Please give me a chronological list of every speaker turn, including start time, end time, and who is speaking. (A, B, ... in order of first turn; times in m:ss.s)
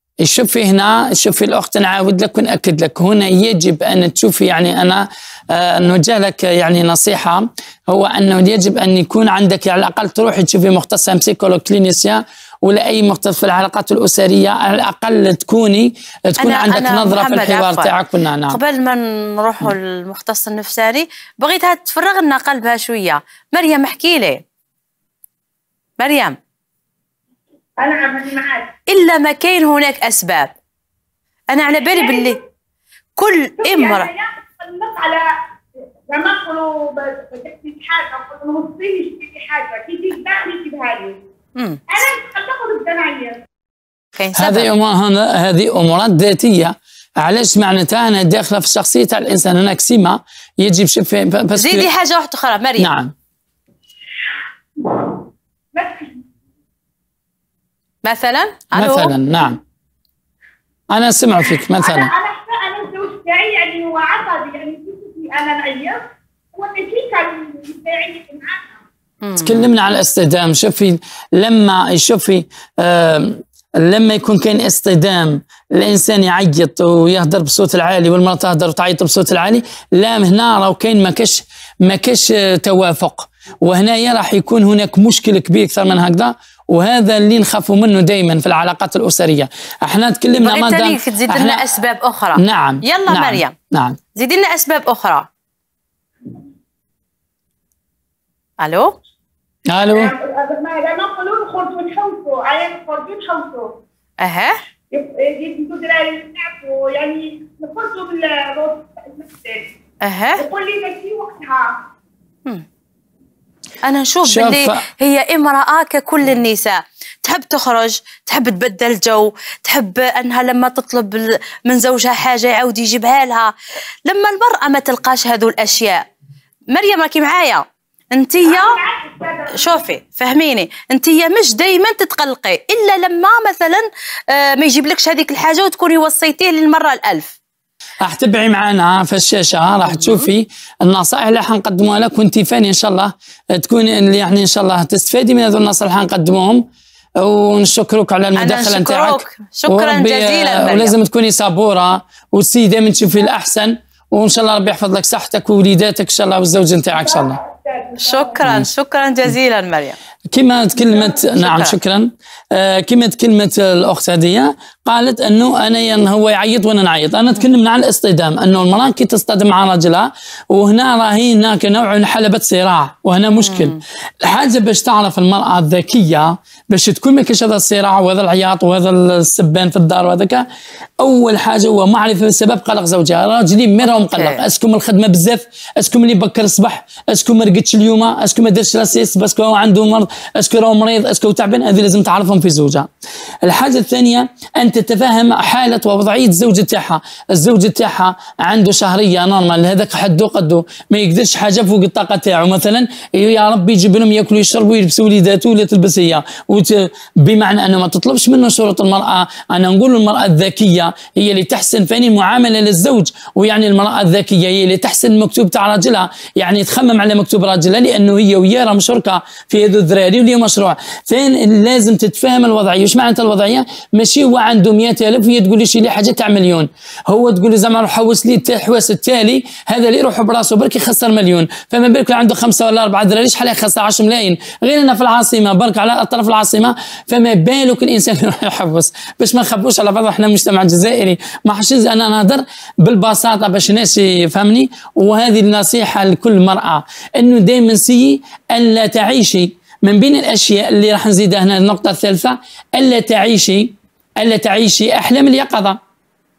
0:00.2-0:18.6 A
0:16.4-0:18.0 B
0:18.5-0:24.4 B
0:26.0-0:26.4 B
0:27.8-0:28.7 C
0:28.9-0:30.5 B
0:31.5-0:32.4 B
0:31.8-0:32.4 C
0:33.2-0:34.1 B
0:33.6-0:35.3 C
0:36.1-0:41.2 C
0:41.6-0:41.8 B
0:41.9-0:43.4 C
0:44.2-0:44.7 B
0:44.4-0:51.9 A
0:51.5-0:52.9 B
0:52.8-0:53.1 A
0:54.8-0:56.2 C
0:58.0-0:59.1 B
0:58.7-0:59.6 A
1:00.9-1:02.1 A
1:01.8-1:08.8 C
1:09.2-1:09.6 B
1:09.4-1:31.6 A
1:30.4-1:33.5 B
1:32.4-1:34.0 A
1:34.2-1:35.3 B
1:38.6-1:38.9 B
1:39.7-1:40.1 A
1:39.9-1:43.7 C
1:44.2-1:44.6 B
1:44.9-1:49.7 C
1:50.0-1:50.4 B
1:50.4-1:51.7 C
1:53.8-2:03.5 B
1:54.2-1:54.8 A
2:04.0-2:06.1 B
2:06.7-2:08.8 B
2:08.4-2:09.8 C
2:09.5-2:17.3 B
2:18.0-2:26.7 A
2:19.8-2:20.3 B
2:27.2-2:37.4 A
2:28.4-2:30.9 B
2:37.0-2:38.4 C
2:38.0-2:40.0 B
2:38.4-2:38.7 A
2:40.3-3:00.4 A
2:41.1-2:41.8 B
2:53.4-2:53.8 B
3:01.0-3:12.9 A
3:03.8-3:04.4 B
3:13.4-4:15.8 A